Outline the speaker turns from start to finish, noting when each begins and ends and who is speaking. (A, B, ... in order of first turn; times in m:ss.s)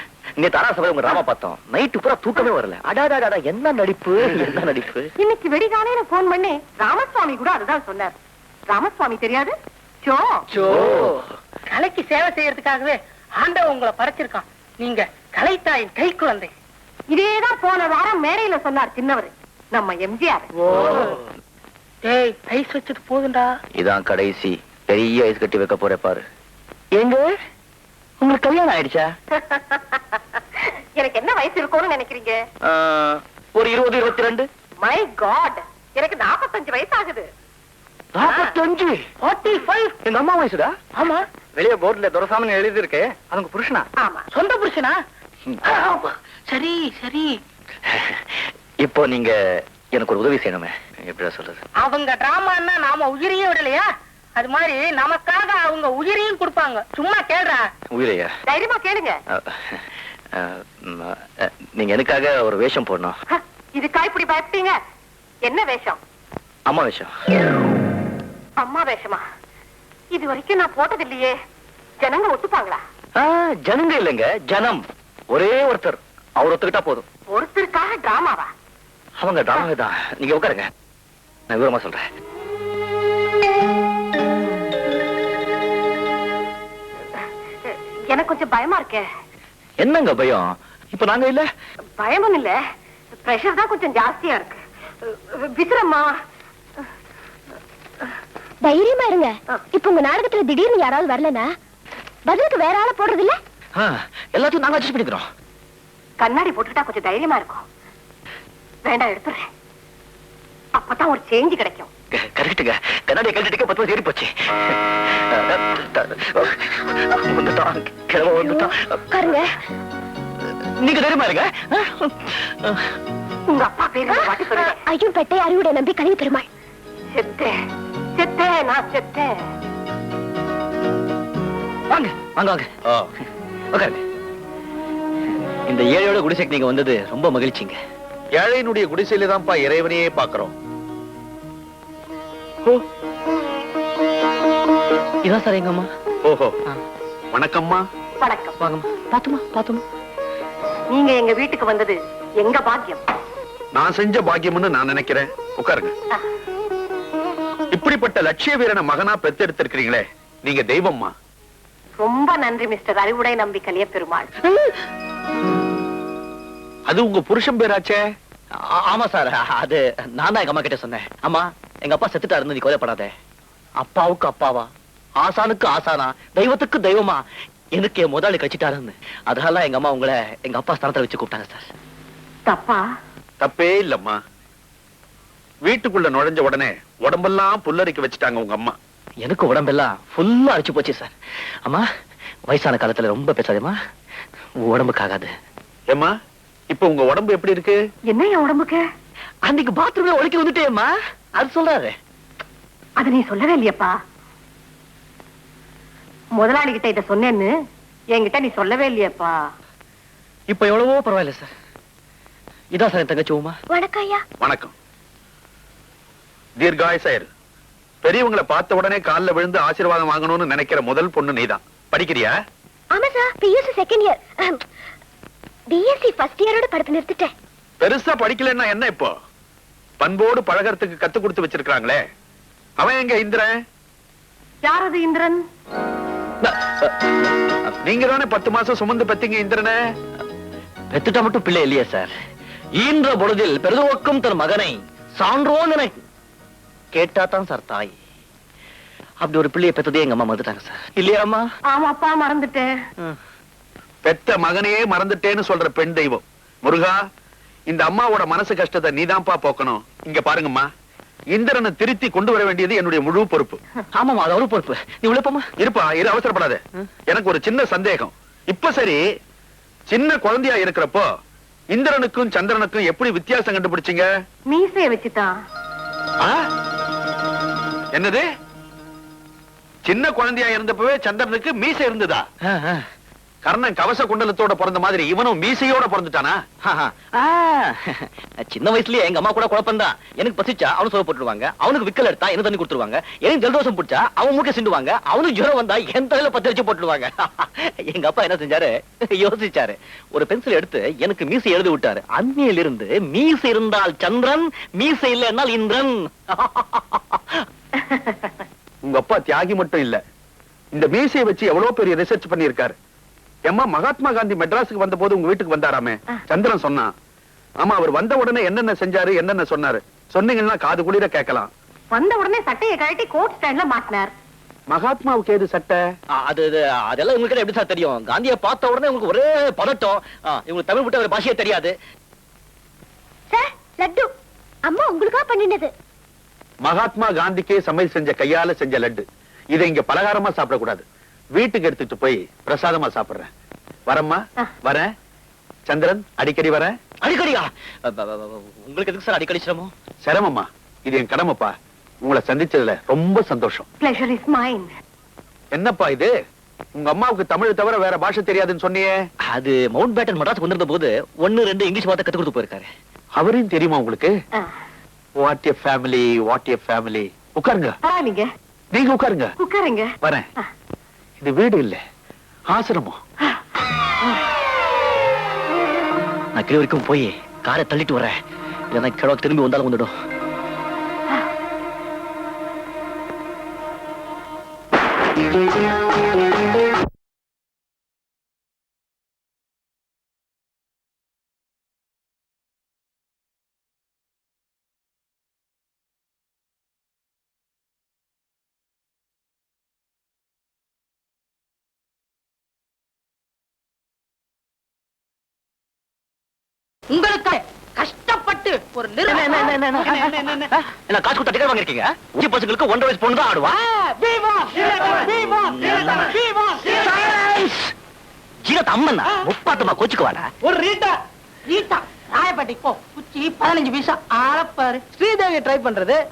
0:00.4-0:05.1 A
0:05.2-0:08.1 B
0:08.7-0:09.5 B
0:10.0-0:10.4 B
0:10.7-0:11.2 A
0:11.7-0:16.5 C
0:17.1-0:20.5 B
0:20.6-0:21.2 C
0:22.0-0:23.6 C
0:23.8-0:26.2 A
0:26.9-0:27.3 A
0:28.2-0:29.2 A
0:29.5-0:29.8 B
0:31.0-0:32.4 B
0:32.6-0:34.5 A
0:34.8-0:37.3 B
0:38.1-0:39.1 A
0:38.2-0:38.5 B
0:39.2-0:40.0 C
0:40.0-0:40.8 A
0:41.0-0:41.2 C
0:41.6-0:43.8 A
0:44.0-0:44.2 B
0:44.3-0:45.0 C
0:45.5-0:45.9 A
0:45.6-0:47.4 C
0:47.9-0:51.6 A
0:51.8-0:57.7 C
0:57.9-0:58.3 A
0:58.5-0:59.2 B
0:59.3-0:59.8 A
1:00.4-1:03.2 A
1:03.3-1:04.8 B
1:05.4-1:06.0 B
1:06.7-1:07.1 A
1:08.6-1:09.2 B
1:10.1-1:11.3 B
1:12.0-1:12.8 B
1:13.2-1:17.0 A
1:17.3-1:18.5 B
1:19.2-1:20.7 A
1:21.5-1:22.0 A
1:27.7-1:29.0 B
1:29.8-1:31.5 A
1:32.0-1:32.6 B
1:33.2-1:36.1 B
1:38.6-1:41.5 D
1:42.3-1:43.4 D
1:43.8-1:45.3 A
1:46.2-1:47.6 B
1:48.8-1:49.4 B
1:50.8-1:51.9 B
1:52.1-1:59.0 A
1:58.2-1:59.5 D
2:00.8-2:02.9 A
2:03.5-2:04.8 B
2:04.1-2:06.5 D
2:07.1-2:07.5 B
2:08.2-2:09.3 B
2:11.9-2:12.7 A
2:13.7-2:14.0 A
2:15.7-2:17.8 A
2:18.4-2:20.5 E
2:25.2-2:25.9 A
2:26.2-2:26.5 E
2:27.3-2:27.8 E
2:28.2-2:28.5 B
2:28.6-2:29.8 A
2:30.9-2:33.0 B
2:33.7-2:35.9 E
2:37.7-2:41.1 E
2:42.0-2:44.3 B
2:46.9-2:48.0 E
2:48.6-2:53.1 A
2:53.8-3:01.7 A
3:02.5-3:02.8 B
3:03.4-3:04.2 E
3:05.6-3:08.8 E
3:09.2-3:11.1 A
3:12.5-3:13.8 A
3:14.6-3:15.3 A
3:16.7-3:17.8 E
3:18.1-3:18.8 B
3:19.4-3:22.0 A
3:23.0-3:23.9 B
3:26.4-3:27.5 B
3:28.1-3:29.3 B
3:30.5-3:31.5 A
3:32.7-3:33.6 A
3:33.7-3:34.2 D
3:34.4-3:34.7 E
3:36.6-3:37.3 E
3:38.0-3:42.3 E
3:42.9-3:44.6 D
3:45.7-3:47.3 D
3:47.8-3:49.1 E
3:50.0-3:52.0 E
3:52.8-3:53.5 E
3:54.6-3:55.4 B
3:56.4-3:56.9 A
3:57.8-3:59.8 E
4:00.9-4:02.1 A
4:02.8-4:06.0 A
4:06.9-4:07.9 A
4:09.2-4:11.5 A
4:11.7-4:12.7 B
4:14.0-4:17.0 E
4:17.7-4:20.7 E
4:21.4-4:23.6 E
4:24.0-4:25.5 A
4:25.6-4:29.0 E
4:29.9-4:31.1 E
4:31.7-4:34.1 E
4:34.5-4:35.3 B
4:37.9-4:38.2 E
4:39.8-4:42.2 E
4:42.5-4:42.9 A
4:43.4-4:46.4 E
4:46.6-5:07.4 A
5:08.8-5:10.0 E
5:10.7-5:12.8 E
5:13.5-5:16.9 E
5:17.6-5:21.5 E
5:21.9-5:24.1 B
5:24.7-5:25.8 E
5:26.1-5:31.8 A
5:33.3-5:34.1 D
5:34.7-5:35.7 D
5:36.6-5:39.0 E
5:39.5-5:40.8 E
5:41.4-5:43.3 E
5:43.9-5:44.9 E
5:45.7-5:46.8 E
5:47.0-5:49.7 A
5:50.0-5:53.7 E
5:53.8-5:54.7 B
5:55.5-5:56.1 E
5:56.8-5:58.9 E
5:59.3-6:02.7 A
6:03.2-6:04.1 E
6:05.2-6:07.8 E
6:07.8-6:08.3 B
6:08.7-6:09.3 E
6:09.4-6:09.9 B
6:11.2-6:11.8 E
6:12.5-6:13.0 E
6:16.3-6:18.2 A
6:18.7-6:19.9 A
6:46.9-6:50.5 C
6:49.1-6:53.6 A
6:53.7-6:57.0 C
6:56.8-6:57.7 A
6:58.4-7:00.3 A
7:00.5-7:00.9 C
7:01.5-7:06.0 C